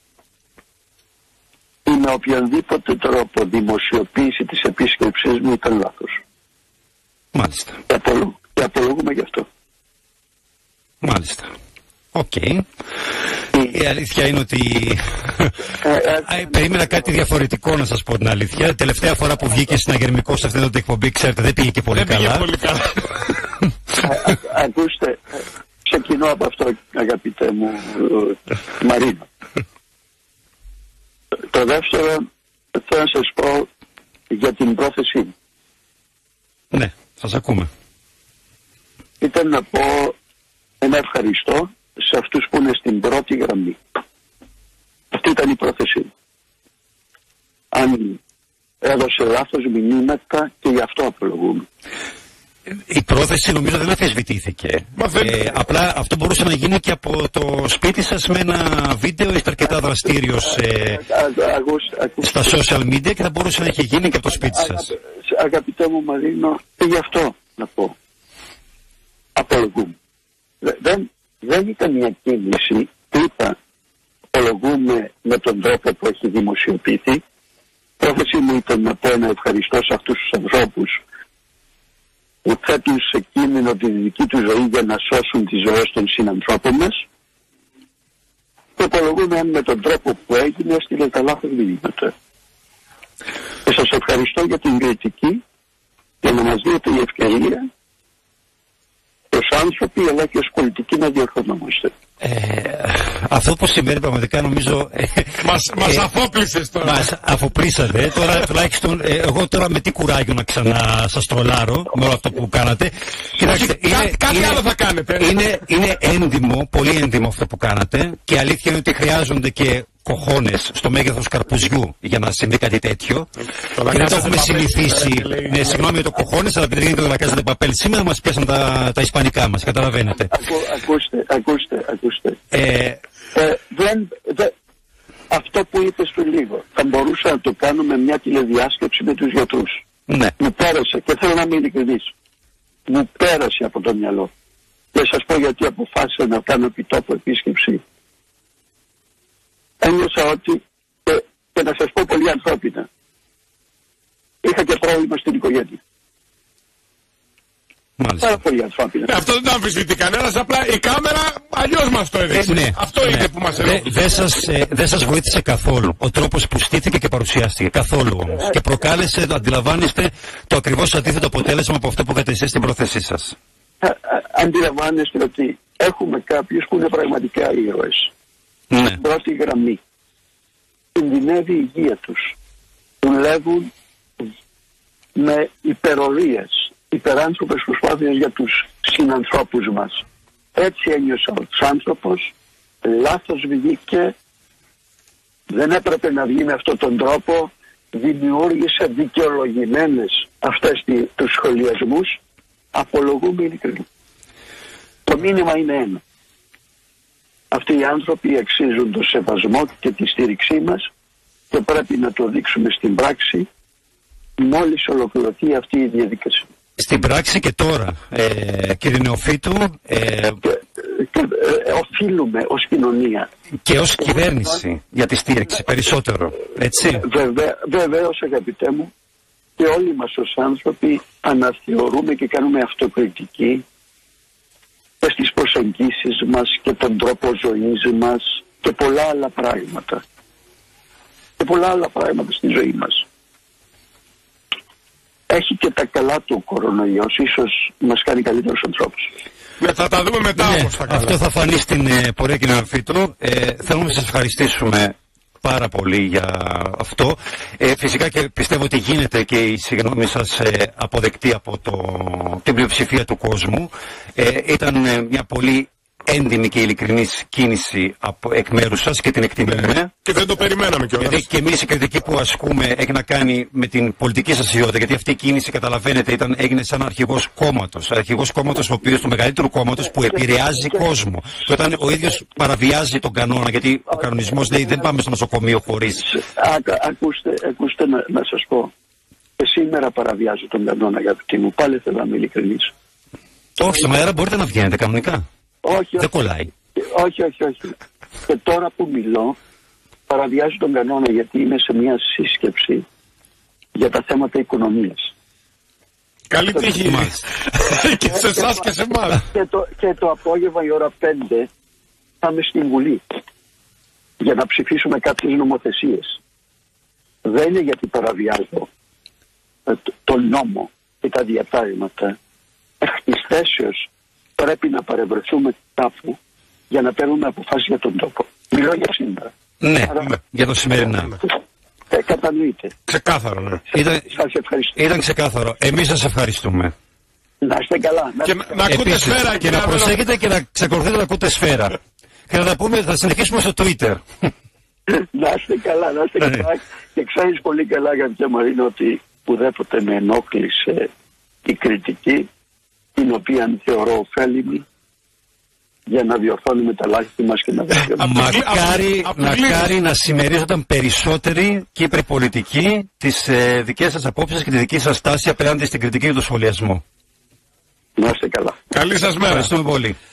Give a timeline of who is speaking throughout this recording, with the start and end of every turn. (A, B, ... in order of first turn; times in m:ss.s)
0:01.8-0:06.2 A
0:07.3-0:07.8 B
0:07.9-0:09.4 A
0:11.0-0:11.5 B
0:12.1-0:12.6 B
0:13.6-0:22.5 B
0:15.8-0:16.9 A
0:21.9-0:23.3 C
0:24.0-0:29.3 A
0:31.5-0:32.2 A
0:32.7-0:33.7 A
0:34.3-0:35.3 A
0:36.7-0:37.7 B
0:39.2-0:40.2 A
0:40.8-0:43.8 A
0:45.1-0:46.1 A
0:47.7-0:48.2 A
0:48.8-0:51.6 A
0:52.7-1:01.0 B
0:55.0-0:55.4 C
1:00.4-1:02.6 A
1:02.2-1:04.9 B
1:04.3-1:07.9 A
1:09.4-1:09.9 A
1:10.6-1:13.6 A
1:14.3-1:17.2 A
1:18.0-1:21.0 A
1:22.4-1:27.0 A
1:28.8-1:32.1 A
1:33.6-1:35.4 A
1:36.2-1:37.6 A
1:39.3-1:41.9 A
1:42.2-1:46.1 B
1:45.4-1:47.1 C
1:46.8-1:54.6 B
1:53.4-1:55.4 C
1:55.2-2:03.3 B
2:03.7-2:05.8 C
2:03.8-2:10.3 B
2:10.2-2:12.4 A
2:12.5-2:13.0 B
2:13.3-2:14.5 A
2:15.3-2:19.8 A
2:20.1-2:20.3 B
2:20.4-2:22.1 A
2:22.9-2:24.3 A
2:24.9-2:27.8 A
2:29.8-2:32.9 A
2:34.4-2:35.8 A
2:38.0-2:38.4 B
2:38.2-2:39.1 A
2:39.0-2:44.0 C
2:42.3-2:53.4 B
2:53.8-2:58.1 A
2:58.7-2:59.0 B
2:59.0-2:59.8 A
3:00.9-3:02.3 A
3:03.0-3:04.3 A
3:05.2-3:10.0 A
3:10.5-3:12.3 A
3:12.8-3:14.1 A
3:15.5-3:22.2 A
3:22.7-3:23.8 A
3:25.1-3:26.0 A
3:27.5-3:30.8 A
3:31.5-3:33.5 A
3:34.4-3:36.4 A
3:36.8-3:40.4 B
3:40.4-3:43.3 A
3:43.6-3:47.0 B
3:44.0-3:44.6 A
3:46.8-3:48.9 A
3:49.6-3:53.6 A
3:55.0-4:00.0 A
4:01.4-4:03.0 A
4:05.3-4:09.1 A
4:09.6-4:11.2 C
4:10.4-4:29.9 B
4:29.4-4:31.2 C
4:31.0-4:46.1 B
4:44.0-4:44.9 A
4:46.0-4:48.7 A
4:49.4-4:52.7 A
4:53.6-4:55.2 B
4:55.6-4:56.1 A
4:56.0-4:56.5 B
4:56.8-4:57.8 A
4:58.3-4:59.4 A
5:00.1-5:02.8 A
5:03.7-5:05.1 A
5:06.3-5:09.2 C
5:06.8-5:07.3 B
5:08.1-5:11.5 A
5:12.2-5:13.2 A
5:14.2-5:16.2 A
5:17.2-5:18.7 A
5:19.6-5:22.2 A
5:22.8-5:23.8 A
5:24.4-5:26.2 A
5:26.7-5:29.3 A
5:29.6-5:31.2 B
5:31.9-5:32.7 A
5:32.9-5:33.6 C
5:33.7-5:34.8 A
5:33.7-5:34.1 B
5:34.8-5:36.7 B
5:37.4-5:38.8 A
5:38.2-5:40.0 C
5:38.7-5:41.8 B
5:42.3-5:44.3 B
5:44.9-5:50.9 A
5:51.4-5:52.3 A
5:53.0-5:54.6 A
5:55.9-5:58.1 A
5:58.0-5:59.7 C
5:58.0-6:06.8 B
6:08.0-6:08.6 A
6:08.7-6:09.5 C
6:09.2-6:10.0 B